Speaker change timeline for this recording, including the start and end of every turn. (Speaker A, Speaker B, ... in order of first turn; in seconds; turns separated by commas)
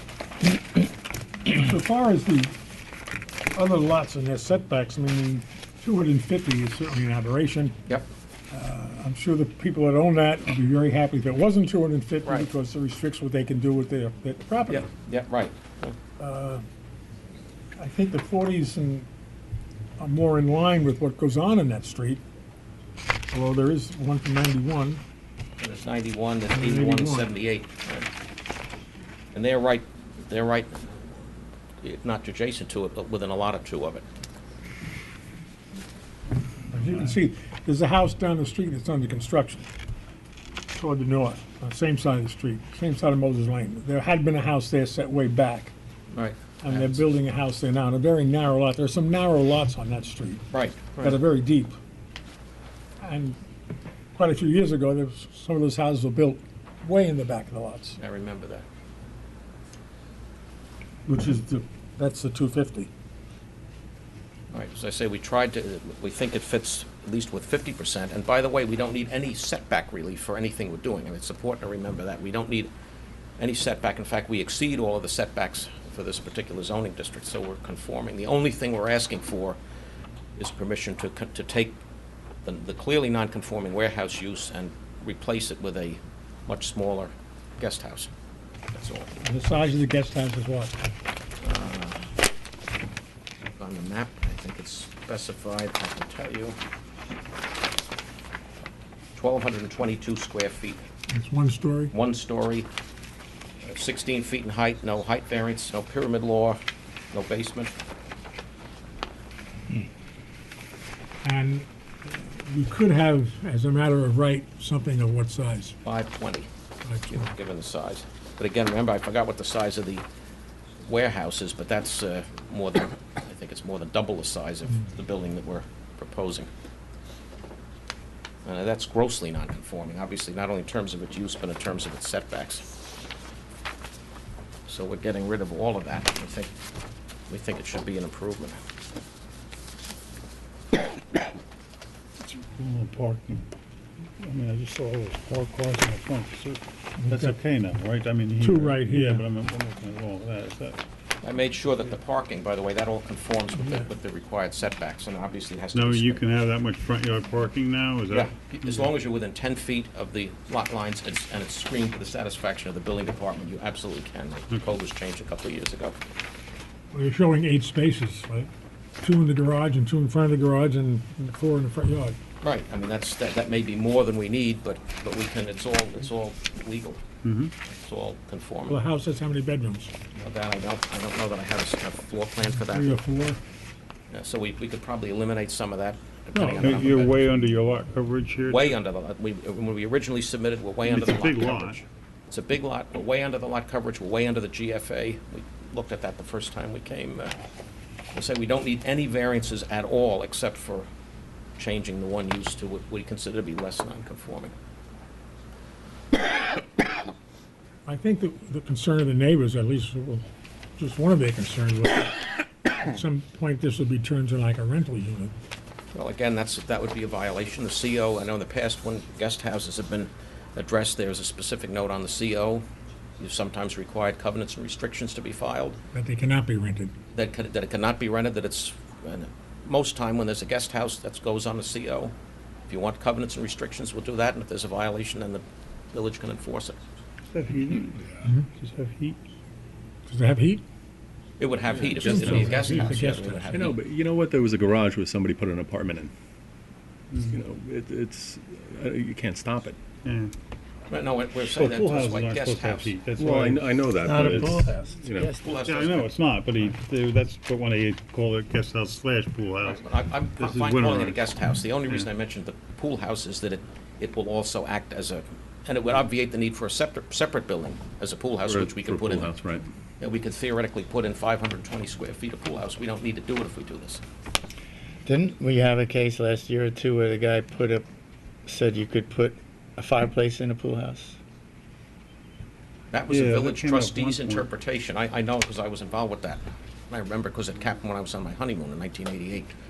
Speaker A: 1.4-2.5, Speaker A: 3.5-7.8, Speaker A: 8.5-14.9, Speaker B: 12.2-12.5, Speaker B: 14.7-15.9, Speaker A: 16.2-16.6, Speaker A: 17.8-19.1, Speaker A: 20.0-22.2, Speaker A: 23.3-25.0, Speaker B: 25.6-28.1, Speaker A: 26.5-27.3, Speaker B: 29.3-34.0, Speaker A: 36.7-39.6, Speaker A: 40.7-45.7, Speaker B: 46.1-47.0, Speaker A: 46.6-50.4, Speaker B: 50.5-51.2, Speaker A: 51.0-51.8, Speaker A: 53.0-53.4, Speaker A: 54.1-58.0, Speaker B: 58.0-58.6, Speaker A: 61.1-62.9, Speaker B: 64.5-72.7, Speaker B: 73.4-79.6, Speaker B: 80.4-81.8, Speaker B: 82.5-88.1, Speaker B: 88.7-89.1, Speaker A: 89.2-90.7, Speaker B: 91.4-92.0, Speaker B: 93.6-96.6, Speaker B: 99.2-100.9, Speaker A: 101.1-101.9, Speaker B: 101.9-102.7, Speaker B: 103.7-106.6, Speaker B: 107.1-107.8, Speaker A: 111.2-115.8, Speaker B: 115.8-116.5, Speaker A: 116.8-117.3, Speaker B: 117.1-120.0, Speaker B: 120.8-126.5, Speaker B: 128.4-132.7, Speaker B: 134.7-136.5, Speaker B: 137.3-138.6, Speaker C: 142.2-143.4, Speaker C: 144.2-150.8, Speaker A: 147.0-147.3, Speaker A: 148.4-149.2, Speaker B: 151.2-156.3, Speaker A: 153.6-153.9, Speaker C: 155.7-158.3, Speaker B: 158.1-166.0, Speaker A: 166.9-168.5, Speaker A: 169.0-172.2, Speaker B: 172.4-177.0, Speaker C: 177.2-177.5, Speaker B: 177.7-178.8, Speaker A: 178.7-179.9, Speaker B: 180.2-183.0, Speaker A: 182.6-183.4, Speaker B: 184.1-187.1, Speaker A: 186.3-187.0, Speaker C: 186.5-188.7, Speaker B: 188.5-197.3, Speaker C: 190.8-191.8, Speaker B: 198.1-200.9, Speaker B: 201.6-204.5, Speaker A: 207.8-210.2, Speaker A: 210.8-215.3, Speaker B: 215.9-222.7, Speaker B: 223.2-225.8, Speaker A: 225.9-226.9, Speaker B: 227.1-232.1, Speaker B: 232.7-236.8, Speaker C: 237.3-239.2, Speaker A: 240.1-240.6, Speaker B: 241.4-243.8, Speaker D: 241.7-246.1, Speaker A: 242.0-243.7, Speaker D: 247.2-249.8, Speaker C: 250.0-250.3, Speaker B: 250.9-252.9, Speaker C: 251.4-253.7, Speaker D: 253.2-255.3, Speaker E: 254.0-255.5, Speaker B: 255.4-256.1, Speaker C: 255.6-262.1, Speaker B: 259.6-269.3, Speaker D: 268.4-269.6, Speaker B: 270.0-274.0, Speaker E: 275.0-277.9, Speaker E: 278.4-281.2, Speaker B: 282.9-289.6, Speaker C: 283.1-284.5